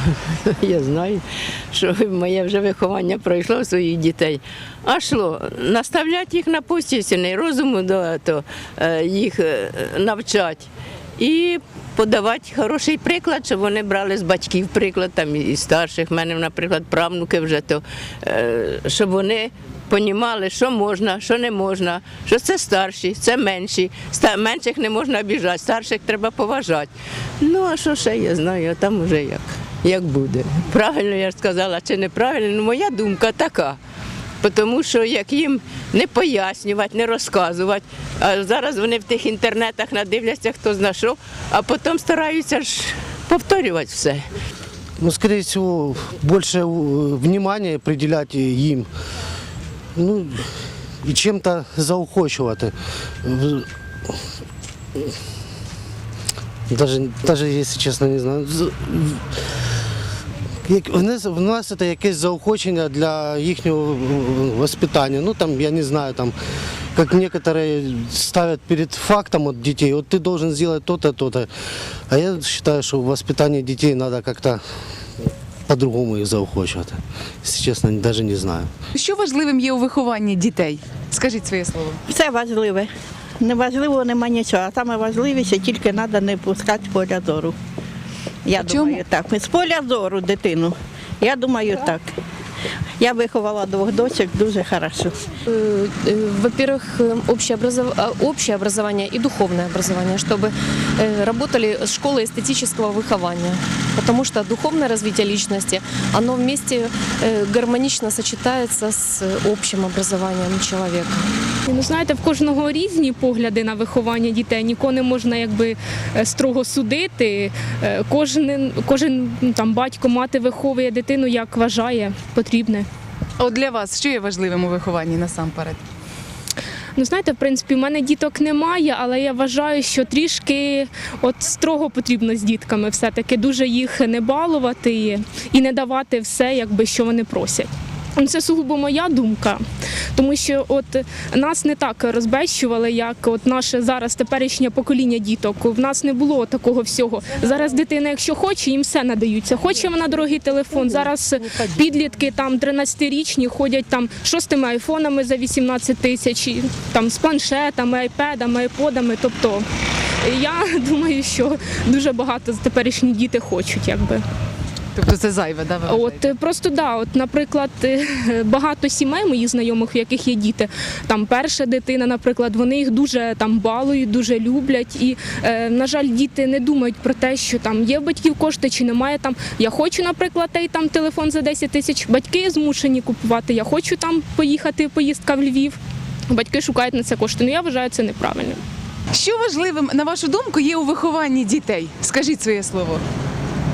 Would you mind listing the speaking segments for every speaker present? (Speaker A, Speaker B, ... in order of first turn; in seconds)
Speaker A: 0.5-33.8, 34.4-44.3
Speaker B: 45.0-48.9, 50.0-54.2, 56.7-59.4, 60.6-66.3, 66.9-71.5, 72.1-74.6, 75.7-78.7
Speaker C: 79.0-82.0, 88.6-89.0, 123.4-125.8, 165.0-166.3, 189.1-193.0
Speaker D: 82.1-82.9, 83.4-87.5, 88.5-92.1, 93.0-95.2
Speaker E: 95.5-111.2
Speaker F: 111.7-122.9, 127.0-139.6, 140.2-159.7, 160.2-164.2, 165.9-185.8, 186.3-188.6